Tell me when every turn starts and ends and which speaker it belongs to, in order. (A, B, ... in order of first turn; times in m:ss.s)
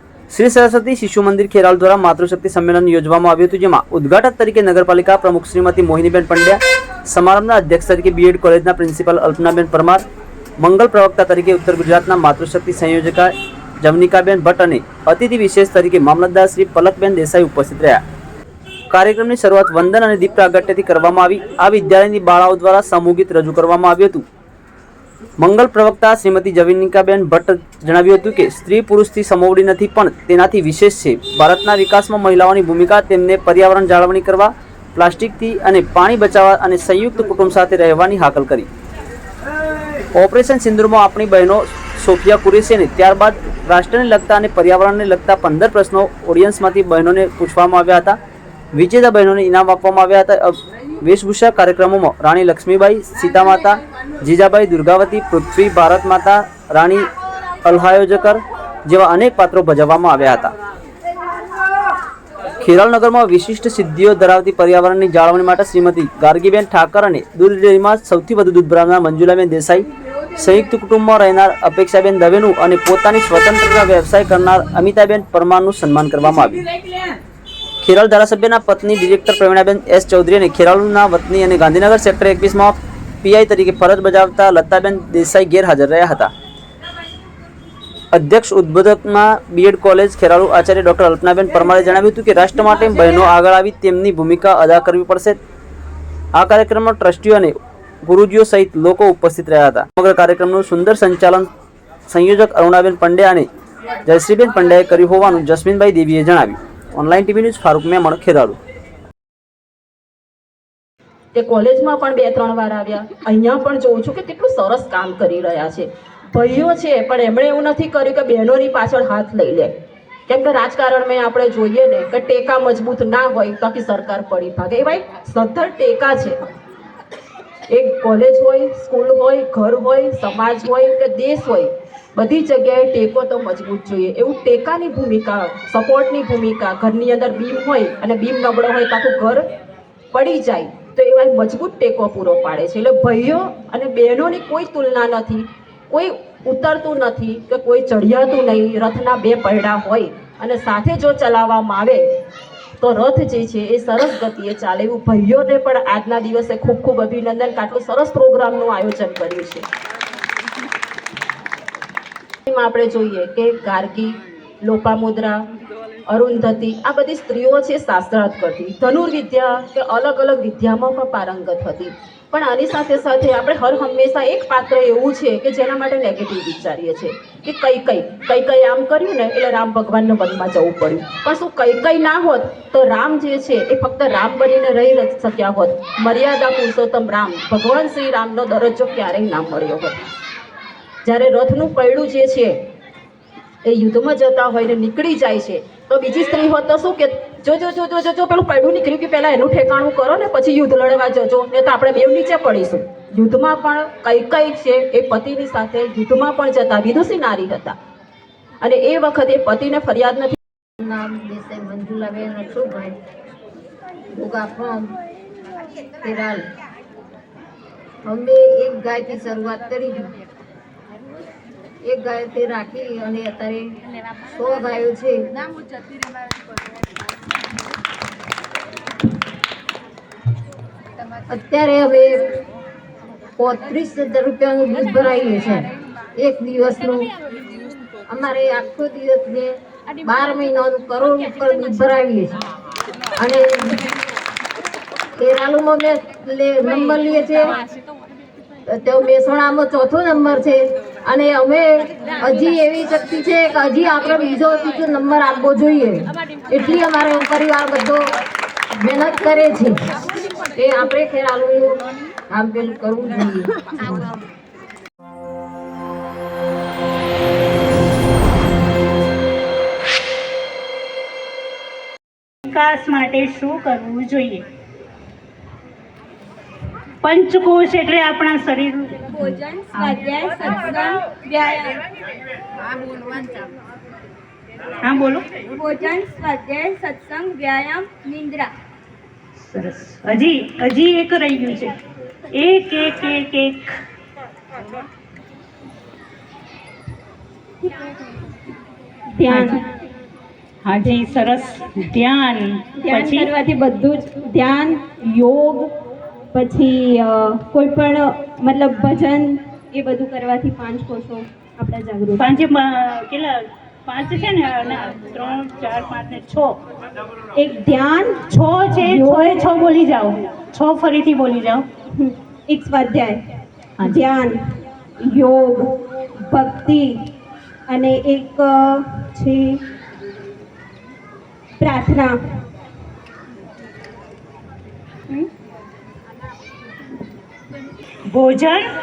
0:00.3-0:10.0 A
0:10.6-0:18.0 A
0:18.9-0:24.2 A
0:25.4-0:38.7 A
0:40.1-0:48.2 A
0:48.7-0:57.1 A
0:57.6-1:00.5 A
1:02.6-1:16.6 A
1:17.8-1:26.3 A
1:28.1-1:35.4 A
1:36.3-1:41.5 A
1:42.1-1:43.5 A
1:44.0-1:48.6 A
1:51.3-1:59.7 B
2:00.3-2:06.4 B
2:07.7-2:19.5 B
2:20.1-2:32.1 B
2:32.8-2:39.7 B
2:42.5-2:45.4 B
2:46.1-3:10.0 B
3:11.0-3:12.6 B
3:13.6-3:27.8 B
3:28.6-3:30.4 B
3:30.8-3:33.0 C
3:34.1-3:34.9 C
3:36.0-3:36.4 C
3:38.0-3:40.1 C
3:41.8-3:43.8 C
3:44.3-3:45.2 C
3:51.3-3:52.4 C
3:53.4-3:57.1 C
3:58.1-4:02.4 C
4:03.2-4:03.9 C
4:05.2-4:07.5 C
4:08.7-4:18.0 C
4:18.8-4:19.8 C
4:20.6-4:24.1 C
4:32.5-4:34.5 D
4:37.0-4:41.6 D
4:39.1-4:41.8 E
4:44.8-4:48.4 D
4:45.5-4:48.5 E
4:49.4-4:51.8 D
4:52.3-4:53.7 D
4:59.1-4:59.6 E
4:59.3-4:59.6 D
5:00.6-5:03.3 D
5:02.8-5:05.7 E
5:06.3-5:12.3 E
5:12.2-5:16.6 D
5:17.4-5:18.2 E
5:18.3-5:21.7 D
5:18.8-5:19.5 E
5:22.0-5:23.2 E
5:23.8-5:24.4 E
5:25.0-5:27.0 E
5:27.7-5:29.6 E
5:31.6-5:32.2 E
5:38.1-5:38.7 D